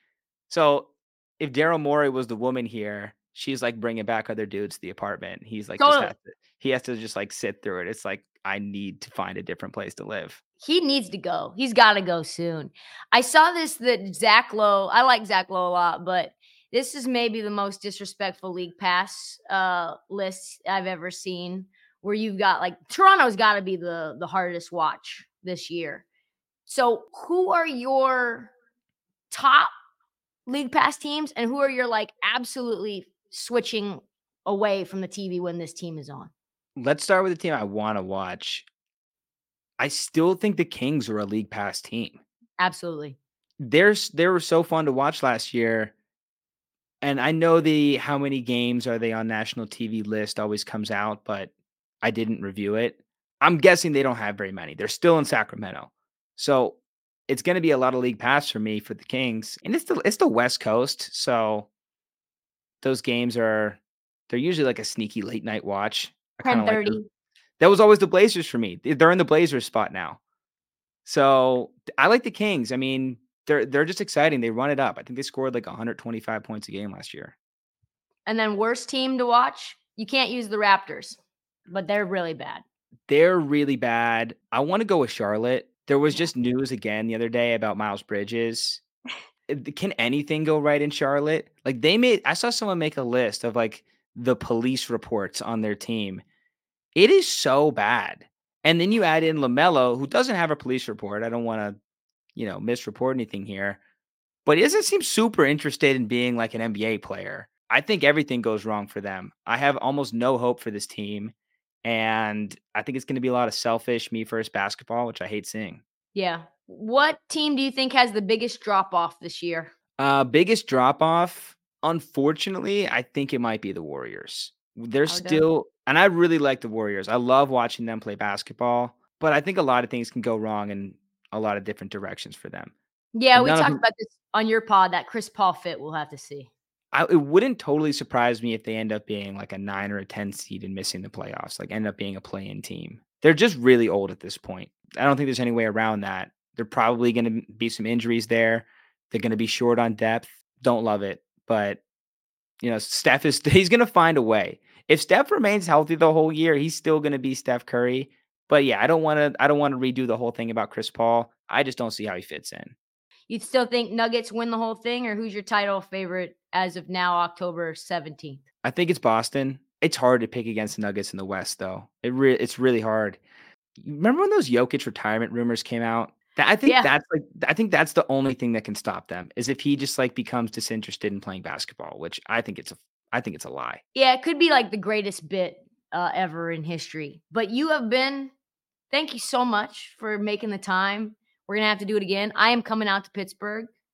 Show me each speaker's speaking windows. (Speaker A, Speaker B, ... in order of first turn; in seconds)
Speaker A: 0.5-10.4, 36.8-38.7, 39.8-42.2, 43.6-45.9, 47.0-51.5, 52.0-61.7, 62.8-67.0, 67.6-70.2, 71.0-77.3, 83.1-88.8, 89.5-96.2, 96.9-101.8, 102.3-103.8, 104.5-111.3, 111.8-115.8, 120.0-132.7, 133.3-133.8, 136.9-151.8, 152.6-162.8, 168.6-173.2, 173.8-183.8
Speaker B: 5.8-6.1, 10.6-26.0, 26.6-28.5, 29.3-29.7, 30.4-36.3, 42.6-43.2, 66.4-67.0, 78.2-82.6, 116.1-119.7, 125.0-125.5, 133.1-136.5, 163.3-168.4, 176.7-176.9, 183.9-188.3, 188.9-193.7